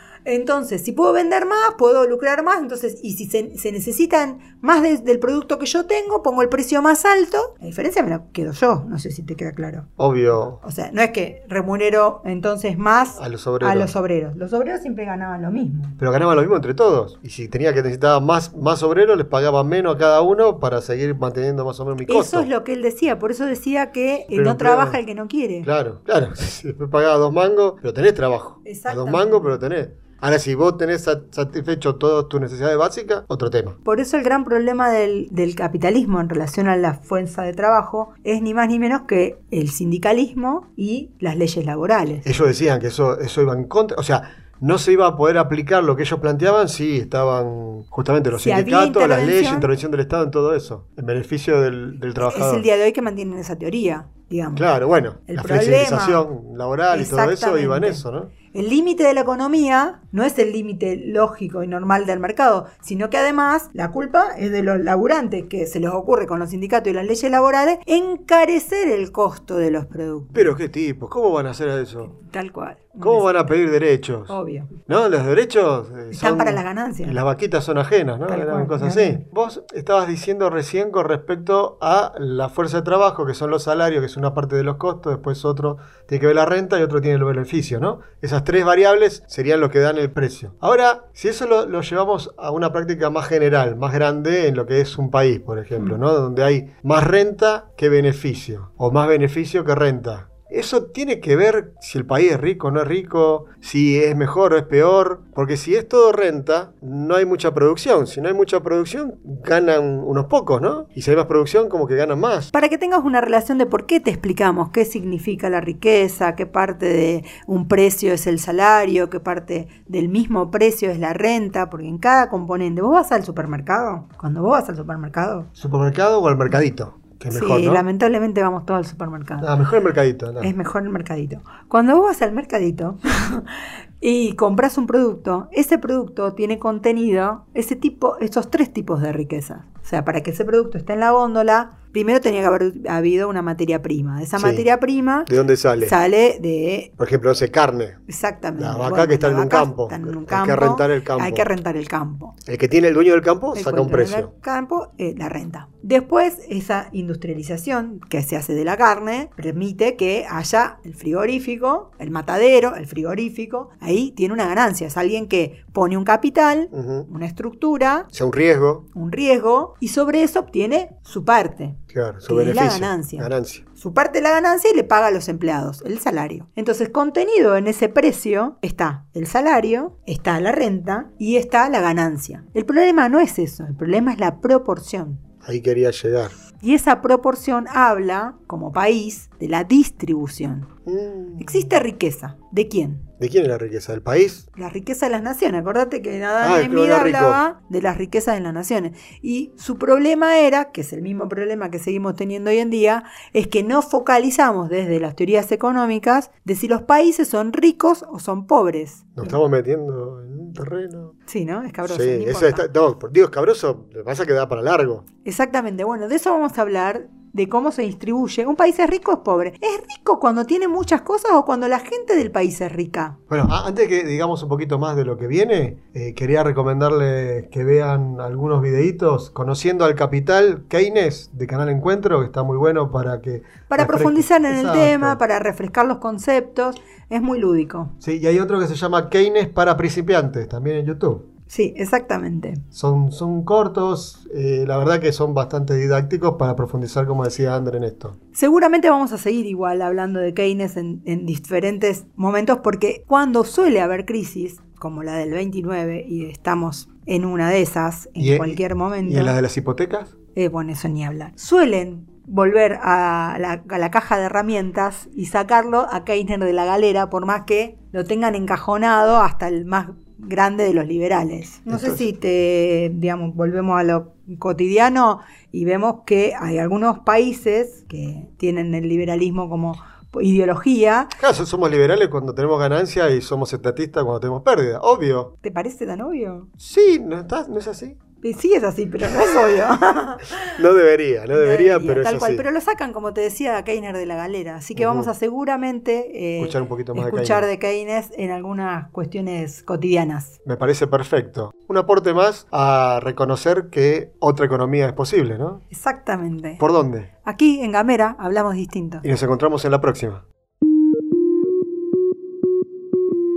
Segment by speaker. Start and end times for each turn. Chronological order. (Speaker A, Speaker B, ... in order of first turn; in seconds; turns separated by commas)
Speaker A: 0.2-9.9, Speaker B: 10.0-10.6, Speaker A: 10.6-16.0, Speaker B: 13.2-13.9, Speaker B: 16.0-22.5, Speaker A: 22.1-25.7, Speaker B: 24.3-25.0, Speaker B: 25.6-33.8, Speaker A: 28.6-29.5, Speaker A: 33.9-42.3, Speaker B: 42.2-52.6, Speaker A: 48.4-49.7, Speaker A: 52.2-54.7, Speaker B: 54.5-58.3, Speaker A: 55.3-56.3, Speaker A: 56.9-70.6, Speaker B: 70.3-72.1, Speaker A: 72.1-73.4, Speaker B: 73.0-74.3, Speaker A: 74.3-74.7, Speaker B: 74.9-112.5, Speaker A: 76.1-77.2, Speaker A: 78.3-79.2, Speaker A: 112.5-125.5, Speaker B: 125.6-127.8, Speaker A: 127.3-129.5, Speaker B: 129.4-130.5, Speaker A: 130.4-133.5, Speaker A: 134.0-146.9, Speaker B: 144.4-144.7, Speaker B: 145.3-145.9, Speaker B: 147.0-148.0, Speaker A: 148.1-152.3, Speaker B: 148.6-151.5, Speaker B: 152.4-154.3, Speaker A: 153.5-168.1, Speaker B: 166.7-167.1, Speaker B: 168.1-168.8, Speaker A: 168.9-185.2, Speaker B: 171.9-173.6, Speaker B: 185.4-186.3, Speaker A: 186.6-190.7, Speaker B: 190.9-191.8, Speaker A: 191.4-193.1, Speaker B: 193.2-194.4, Speaker A: 194.6-209.3, Speaker B: 196.4-197.4, Speaker B: 209.2-211.2, Speaker A: 211.3-212.7, Speaker B: 211.9-215.1, Speaker A: 215.2-223.2, Speaker B: 223.3-235.2, Speaker A: 233.7-237.9, Speaker B: 238.0-241.3, Speaker A: 241.5-242.6, Speaker B: 242.7-248.2, Speaker A: 248.3-259.4, Speaker B: 258.2-260.1, Speaker A: 260.4-281.1, Speaker B: 271.7-272.0, Speaker B: 281.2-285.3, Speaker A: 285.4-286.5, Speaker B: 286.6-288.0, Speaker A: 288.2-290.6, Speaker B: 290.3-292.4, Speaker A: 291.3-300.4, Speaker B: 294.8-295.1, Speaker B: 296.4-297.5, Speaker B: 300.4-305.6, Speaker A: 305.7-306.6, Speaker B: 306.6-307.1, Speaker A: 307.2-309.1, Speaker B: 309.0-310.2